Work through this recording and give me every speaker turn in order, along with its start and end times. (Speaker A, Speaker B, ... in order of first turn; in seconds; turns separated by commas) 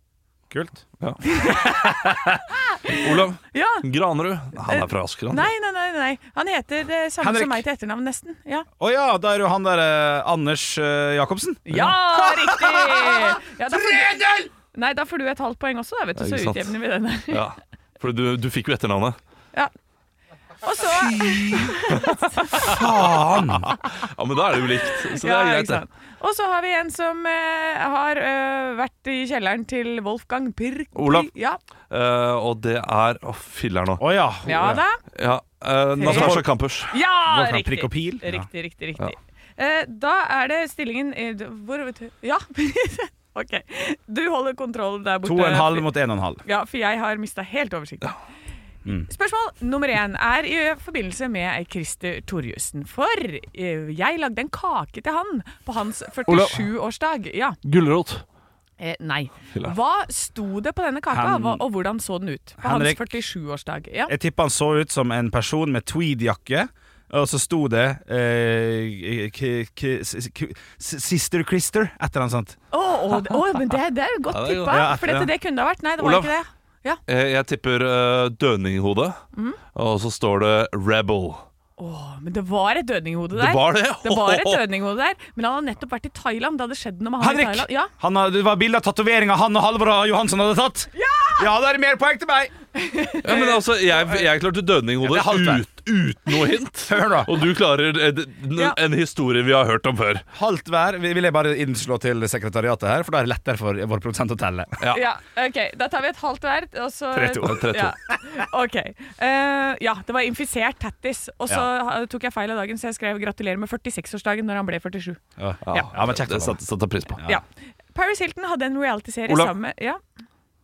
Speaker A: 0.5-0.8, Speaker B: 1.2-3.9, Speaker A: 1.5-2.4, Speaker C: 2.9-5.5, Speaker B: 4.7-8.7, Speaker A: 7.2-7.7, Speaker A: 8.8-14.5, Speaker B: 11.7-17.5, Speaker C: 16.2-16.8, Speaker C: 17.3-19.2, Speaker B: 20.6-22.7, Speaker C: 20.8-25.8, Speaker A: 22.5-23.7, Speaker B: 25.0-31.6, Speaker C: 30.9-31.3, Speaker C: 31.9-34.1, Speaker A: 34.0-34.8, Speaker B: 34.5-35.0, Speaker C: 34.6-36.9, Speaker B: 36.0-45.9, Speaker A: 36.0-36.5, Speaker A: 37.3-38.5, Speaker A: 45.2-46.4, Speaker B: 46.5-48.1, Speaker B: 49.1-57.6, Speaker C: 56.3-56.7, Speaker C: 57.6-58.2, Speaker B: 58.8-64.1, Speaker A: 61.1-61.6, Speaker A: 62.6-63.0, Speaker A: 64.1-72.6, Speaker B: 72.7-77.0, Speaker C: 74.3-75.0, Speaker A: 74.7-75.3, Speaker C: 76.0-76.3, Speaker C: 77.1-79.2, Speaker C: 79.7-81.5, Speaker B: 81.8-87.9, Speaker C: 83.3-84.7, Speaker A: 87.2-92.5, Speaker B: 91.0-91.5, Speaker B: 92.8-93.6, Speaker C: 93.2-100.2, Speaker A: 95.0-95.7, Speaker A: 96.9-97.4, Speaker A: 100.3-104.8, Speaker C: 104.8-105.1, Speaker B: 104.9-115.2, Speaker A: 107.1-107.7, Speaker C: 107.4-108.0, Speaker A: 115.4-116.6, Speaker C: 115.7-117.2, Speaker B: 117.2-120.0, Speaker C: 119.3-119.5